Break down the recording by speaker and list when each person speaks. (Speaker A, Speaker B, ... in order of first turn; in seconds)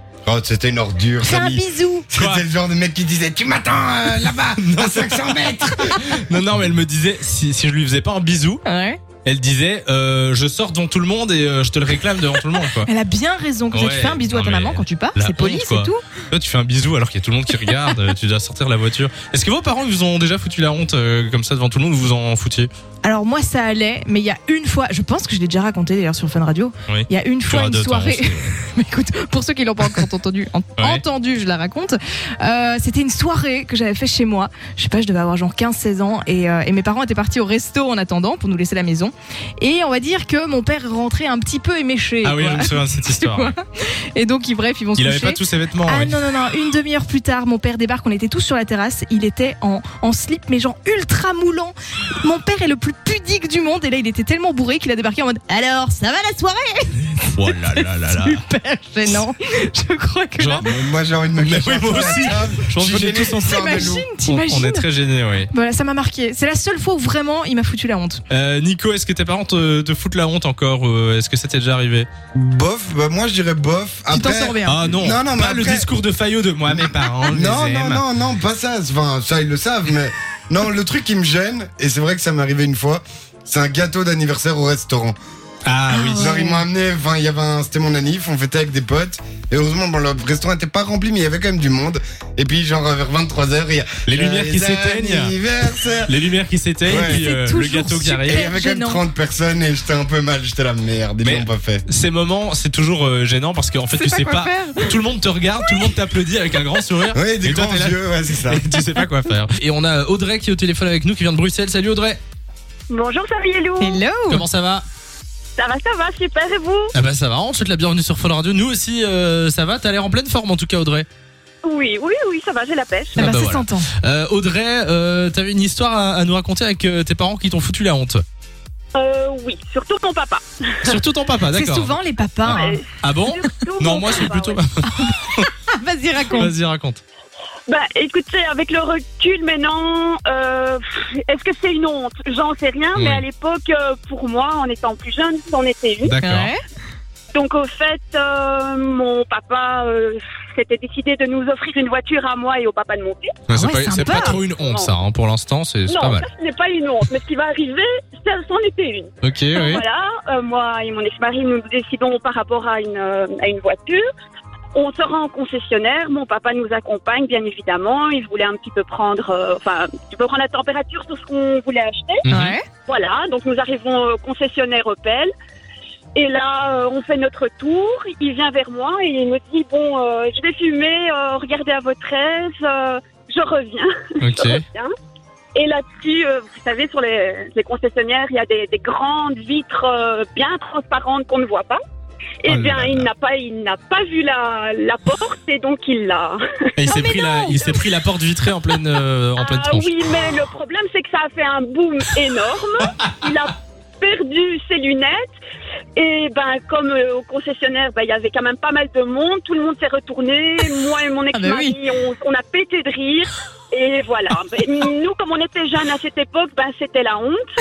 Speaker A: 0.2-6.2, 60.6-64.1, 72.3-75.9, 76.7-85.2, 86.1-96.1, 96.8-97.3, 98.2-101.8, 107.1-108.6
Speaker B: 1.2-2.0, 8.6-9.0, 12.7-16.0, 23.0-60.7, 63.4-64.9, 65.5-68.2, 74.1-74.8, 85.9-86.6, 97.0-99.0, 103.9-105.0, 105.6-106.0, 113.8-114.5, 123.2-123.9, 131.5-132.8, 135.7-136.5, 146.2-146.6, 153.5-154.4, 172.3-172.7, 196.9-197.7, 211.3-211.8
Speaker C: 2.1-2.4, 4.6-8.6, 9.2-12.9, 13.7-22.7, 26.9-28.5, 30.8-31.0, 42.2-43.5, 45.0-46.1, 57.3-58.4, 60.4-60.6, 61.4-65.5, 68.3-72.1, 74.6-78.0, 85.6-86.3, 94.0-95.3, 96.0-98.5, 101.2-112.2, 114.3-114.8, 116.9-121.1, 123.2-128.2, 130.8-131.9, 132.5-135.5, 136.3-137.0, 142.9-143.2, 146.0-146.5, 153.5-156.2, 159.2-159.8, 172.3-172.6, 184.2-184.6, 192.4-193.1, 196.8-200.1
Speaker D: 112.9-114.0, 115.6-116.9, 121.6-123.3, 128.9-131.0, 132.4-134.6, 137.7-146.1, 147.3-153.4, 153.9-154.9, 155.9-164.0, 164.7-172.2, 172.9-175.3, 176.1-184.9, 185.5-191.8, 192.4-197.7, 199.4-205.3, 205.9-217.4